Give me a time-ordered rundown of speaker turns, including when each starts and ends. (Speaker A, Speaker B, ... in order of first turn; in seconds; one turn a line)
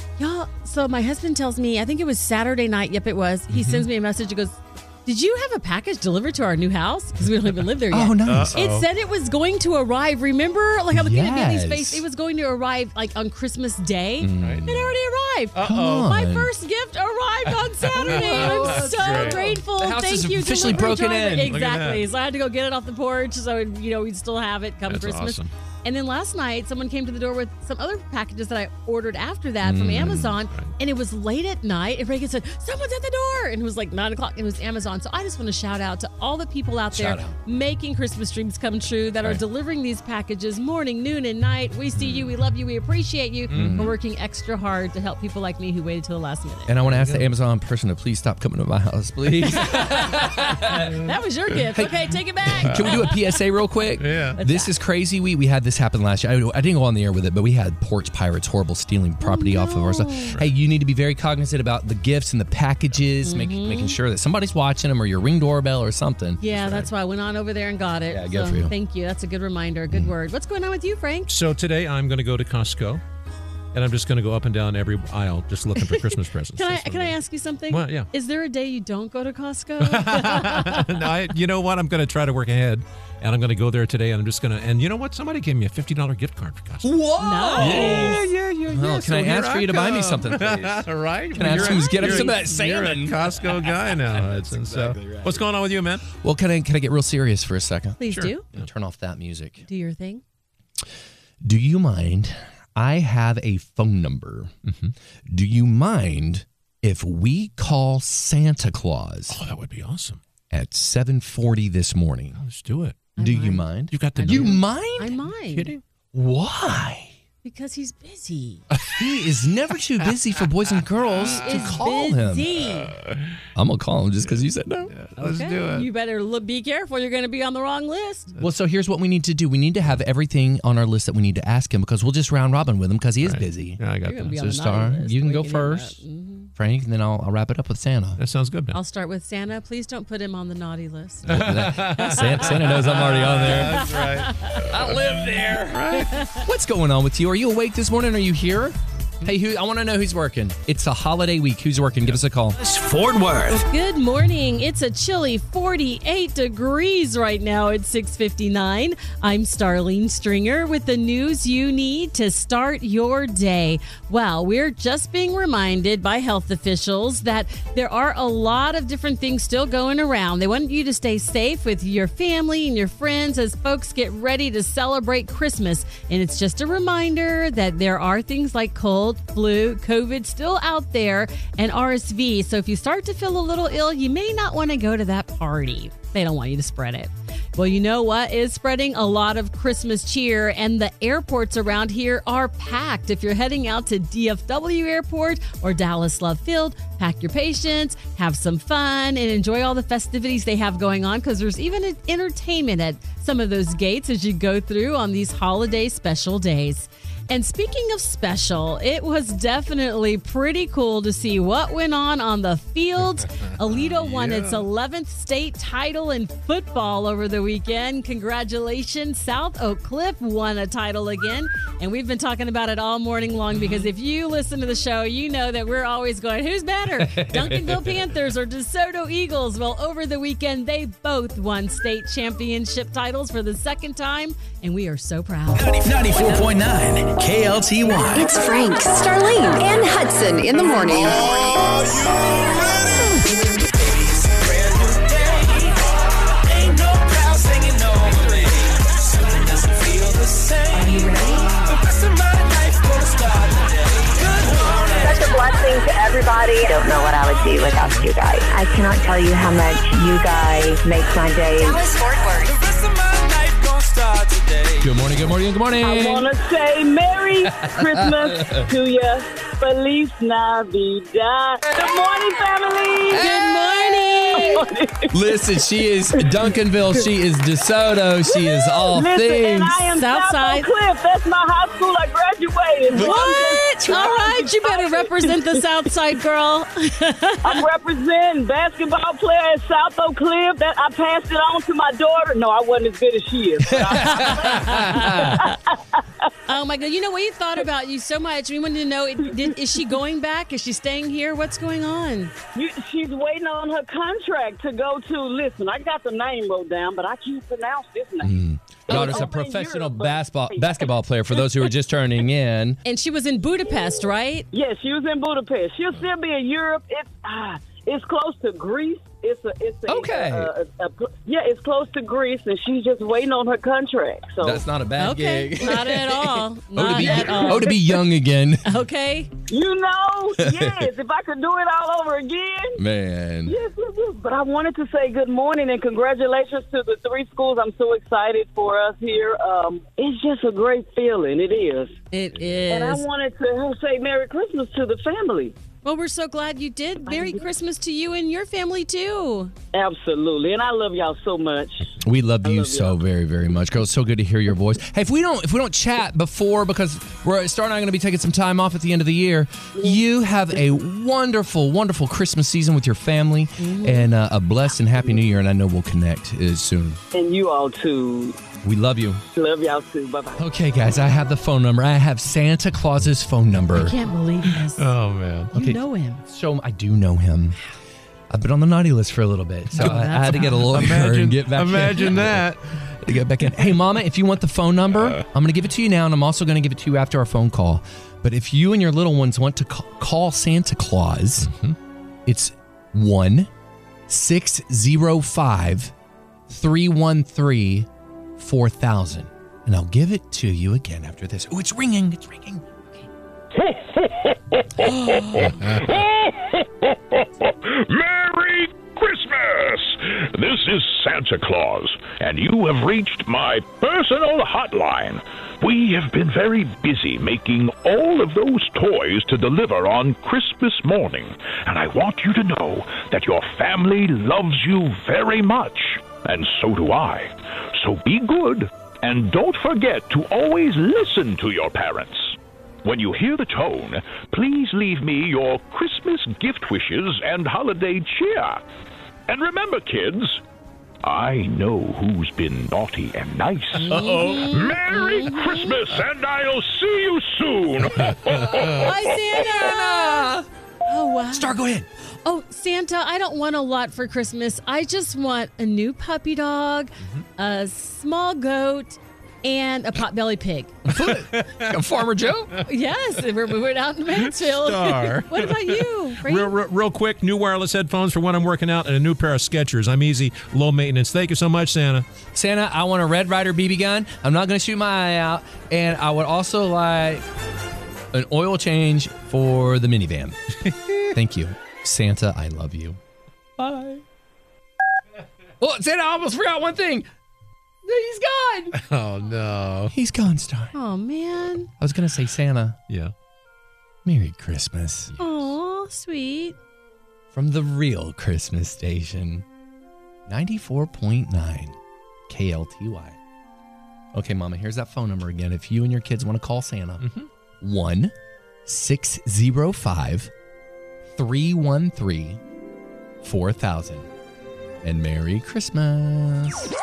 Speaker A: 0.2-46.7
Speaker B: 7.9-8.6
Speaker C: 8.2-8.9
Speaker B: 10.9-12.0
Speaker B: 14.2-14.8
Speaker C: 14.4-14.9
Speaker C: 15.6-16.1
Speaker B: 15.6-16.5
Speaker C: 17.5-19.5
Speaker B: 17.9-21.6
Speaker C: 21.5-22.1
Speaker C: 24.9-25.5
Speaker B: 29.6-30.4
Speaker B: 36.9-37.4
Speaker C: 43.5-43.9
Speaker B: 43.5-43.9
Speaker B: 46.7-51.0
Speaker C: 46.9-47.3
Speaker A: 49.5-53.2
Speaker B: 51.8-66.4
Speaker C: 52.6-53.0
Speaker C: 54.0-54.4
Speaker A: 54.4-54.7
Speaker A: 59.2-60.4
Speaker A: 63.2-64.0
Speaker A: 66.4-71.3
Speaker C: 66.5-66.9
Speaker B: 68.1-68.7
Speaker C: 71.3-73.0
Speaker C: 73.7-77.2
Speaker A: 75.8-81.0
Speaker C: 77.7-78.1
Speaker C: 79.8-87.0
Speaker B: 86.8-95.4
Speaker A: 87.2-88.2
Speaker C: 87.6-96.1
Speaker A: 91.4-92.5
Speaker B: 96.2-99.6
Speaker A: 98.0-98.5
Speaker C: 98.1-98.7
Speaker A: 99.7-100.2
Speaker B: 101.4-104.5
Speaker C: 104.7-104.9
Speaker B: 105.3-109.4
Speaker C: 109.3-110.2
Speaker B: 110.5-112.4
Speaker C: 112.3-113.1
Speaker A: 113.2-115.7
Speaker B: 113.2-115.2
Speaker C: 113.9-114.6
Speaker C: 115.3-115.8
Speaker B: 116.1-117.1
Speaker A: 117.4-118.6
Speaker B: 118.9-122.6
Speaker A: 121.2-122.9
Speaker C: 122.8-123.4
Speaker B: 123.5-124.9
Speaker C: 124.2-125.9
Speaker A: 125.2-128.3
Speaker B: 128.4-136.0
Speaker C: 133.2-134.4
Speaker A: 134.1-136.5
Speaker B: 136.6-138.2
Speaker C: 138.2-138.8
Speaker A: 138.7-142.8
Speaker B: 141.3-143.9
Speaker C: 141.3-146.3
Speaker A: 143.7-144.7
Speaker B: 144.6-145.8
Speaker B: 146.4-152.6
Speaker D: 152.6-153.6
Speaker A: 153.5-235.8
Speaker C: 213.6-214.7
Speaker C: 223.5-223.9
Speaker B: 227.0-227.5
Speaker D: 235.7-238.3
Speaker E: 238.1-241.3
Speaker F: 254.9-261.9
Speaker E: 261.6-262.6
Speaker B: 264.8-266.3
Speaker G: 265.8-273.3
Speaker B: 267.6-268.7
Speaker B: 273.1-279.9
Speaker A: 273.1-274.6
Speaker G: 274.3-275.2
Speaker G: 278.2-285.4
Speaker A: 279.9-280.7
Speaker A: 282.9-287.6
Speaker B: 282.9-283.4
Speaker G: 287.4-296.3
Speaker B: 293.7-295.4
Speaker A: 294.0-295.5
Speaker A: 296.5-302.3
Speaker G: 302.6-308.3
Speaker B: 308.2-312.8
Speaker G: 308.9-310.9
Speaker A: 308.9-309.2
Speaker A: 312.9-314.5
Speaker G: 314.5-324.6
Speaker B: 319.9-320.5
Speaker B: 324.4-328.7
Speaker A: 325.0-327.8
Speaker G: 327.0-327.9
Speaker A: 328.6-329.3
Speaker G: 329.5-332.8
Speaker B: 330.4-330.9
Speaker B: 332.8-333.6
Speaker G: 333.5-342.0
Speaker A: 342.1-343.0
Speaker G: 342.7-345.6
Speaker A: 345.9-349.5
Speaker G: 347.1-347.4
Speaker G: 349.7-353.0
Speaker B: 352.0-367.0
Speaker A: 363.6-364.1
Speaker G: 367.1-368.4
Speaker B: 368.6-369.2
Speaker G: 369.4-370.4
Speaker B: 370.4-373.9
Speaker A: 373.8-374.9
Speaker C: 374.4-375.5
Speaker A: 375.5-376.2
Speaker B: 375.5-377.6
Speaker B: 378.3-391.5
Speaker C: 379.7-382.9
Speaker A: 379.8-380.8
Speaker C: 391.4-391.8
Speaker B: 392.3-393.5
Speaker B: 394.1-395.9
Speaker B: 396.5-402.8
Speaker H: 403.6-438.6
Speaker A: 404.9-405.3
Speaker C: 405.5-406.0
Speaker H: 439.3-440.4
Speaker H: 441.0-448.9
Speaker A: 443.8-445.8
Speaker A: 448.6-451.6
Speaker B: 449.5-450.4
Speaker B: 451.3-451.9
Speaker A: 452.2-460.8
Speaker B: 460.9-462.6
Speaker C: 460.9-461.7
Speaker A: 462.6-466.5
Speaker C: 464.1-472.1
Speaker B: 472.3-477.3
Speaker B: 478.1-480.5
Speaker C: 480.7-481.1
Speaker B: 481.1-483.0
Speaker B: 483.6-484.0
Speaker B: 485.6-487.1
Speaker B: 487.8-488.8
Speaker C: 488.7-489.9
Speaker B: 489.9-490.7
Speaker A: 490.7-491.7
Speaker B: 491.8-492.8
Speaker B: 494.1-495.1
Speaker A: 495.2-496.6
Speaker B: 497.3-499.4
Speaker B: 500.3-501.8
Speaker B: 502.3-503.2
Speaker B: 504.1-508.1
Speaker C: 507.0-507.3
Speaker B: 508.7-510.3
Speaker B: 511.1-512.4
Speaker B: 513.2-514.1
Speaker B: 514.8-516.7